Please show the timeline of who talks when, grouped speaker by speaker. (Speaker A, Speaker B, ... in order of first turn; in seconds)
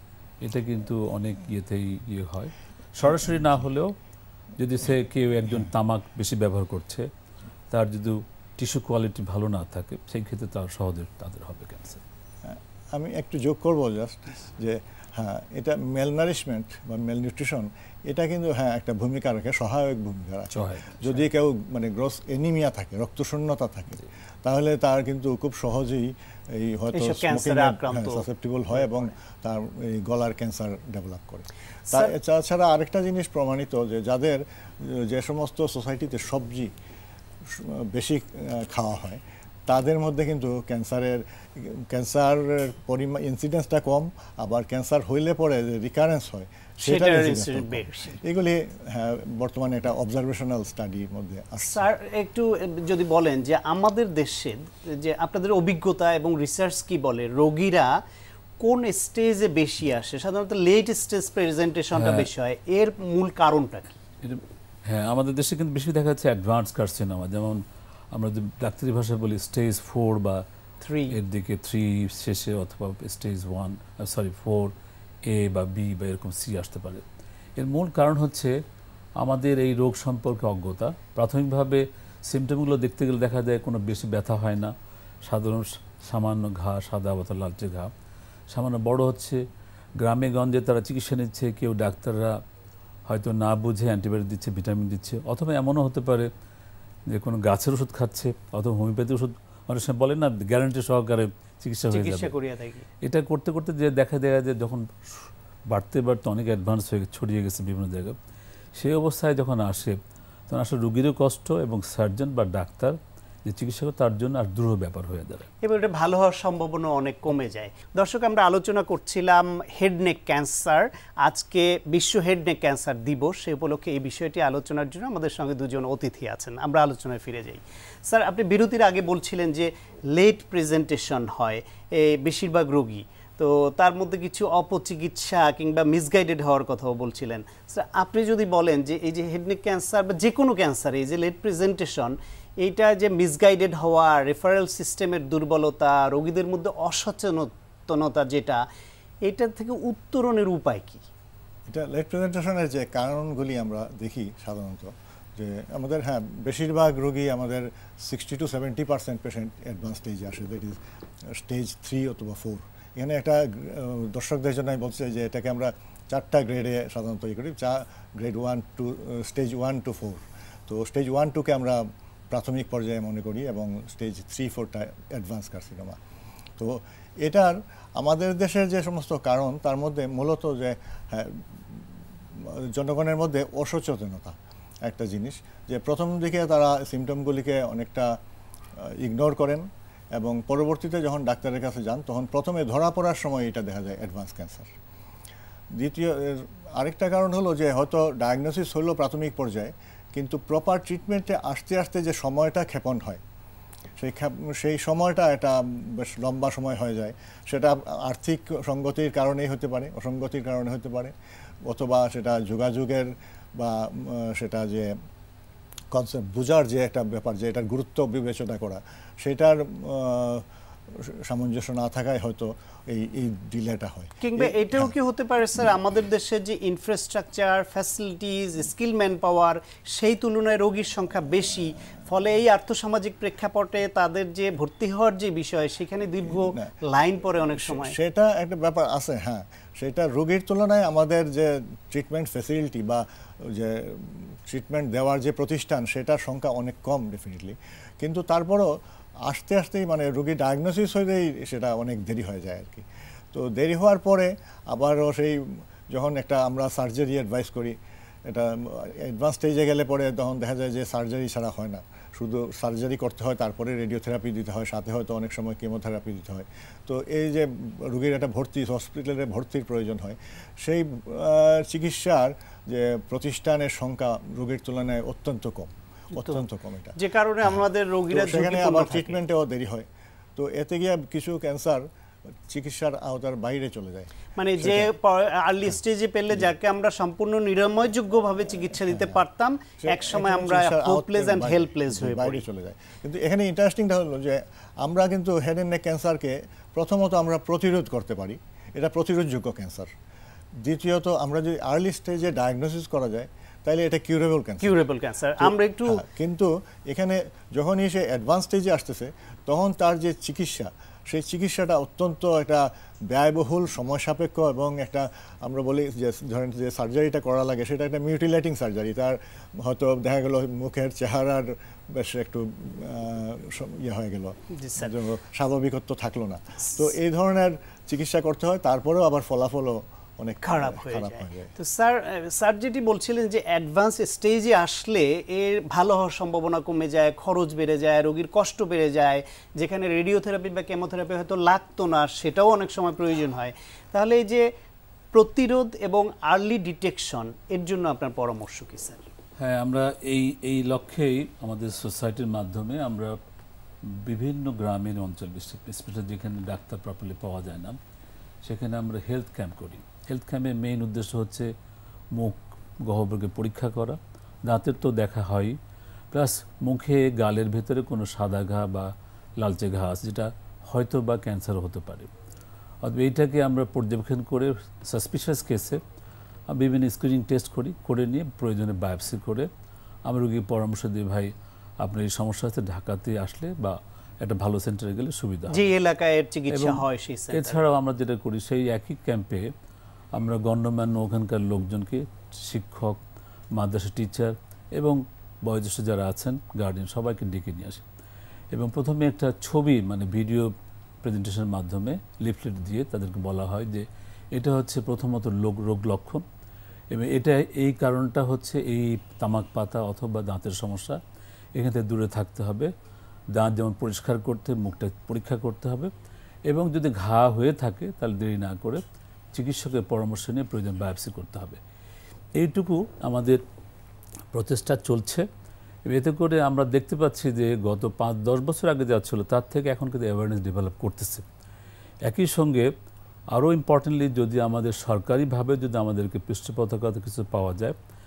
Speaker A: 0.4-3.9, 4.6-7.1, 7.7-12.0, 20.5-21.3, 61.9-62.3, 64.2-70.4, 71.1-74.7, 75.2-77.0, 77.6-78.5, 79.2-84.7, 85.3-87.9, 88.5-89.4, 90.0-92.3, 93.1-96.3, 97.1-102.3, 103.0-108.2, 108.8-110.0, 110.5-115.5, 349.4-353.2, 353.9-357.8, 358.4-361.5, 362.1-365.6, 366.1-372.1, 372.8-375.8, 376.5-379.5, 380.1-381.3, 381.8-385.6, 386.5-389.5, 390.1-393.0, 393.6-397.8, 398.5-400.5, 401.0-406.2, 406.9-411.0, 411.6-412.7, 413.4-415.9, 416.5-418.8, 419.4-421.6, 422.4-423.4, 424.3-425.2, 425.9-431.2, 432.1-432.7, 433.3-437.8
Speaker B: 12.4-36.7, 37.5-51.9, 151.7-160.8, 161.3-176.0, 176.6-181.4, 182.4-188.2, 188.9-194.7, 195.8-203.2, 204.0-211.1, 211.7-214.9, 215.9-224.9, 236.2-236.7, 237.5-248.7, 249.2-281.9, 282.5-284.9, 288.8-289.2, 289.8-299.9, 300.6-304.7, 305.4-331.5
Speaker C: 26.9-29.1, 46.8-48.2, 51.6-58.0, 58.6-64.0, 70.8-71.2, 101.9-102.9, 115.6-148.6, 149.2-151.0, 224.2-237.9, 276.1-276.4, 276.9-279.2, 284.4-292.4, 304.6-306.0, 324.6-325.0, 330.4-344.5, 345.1-349.0, 385.5-387.6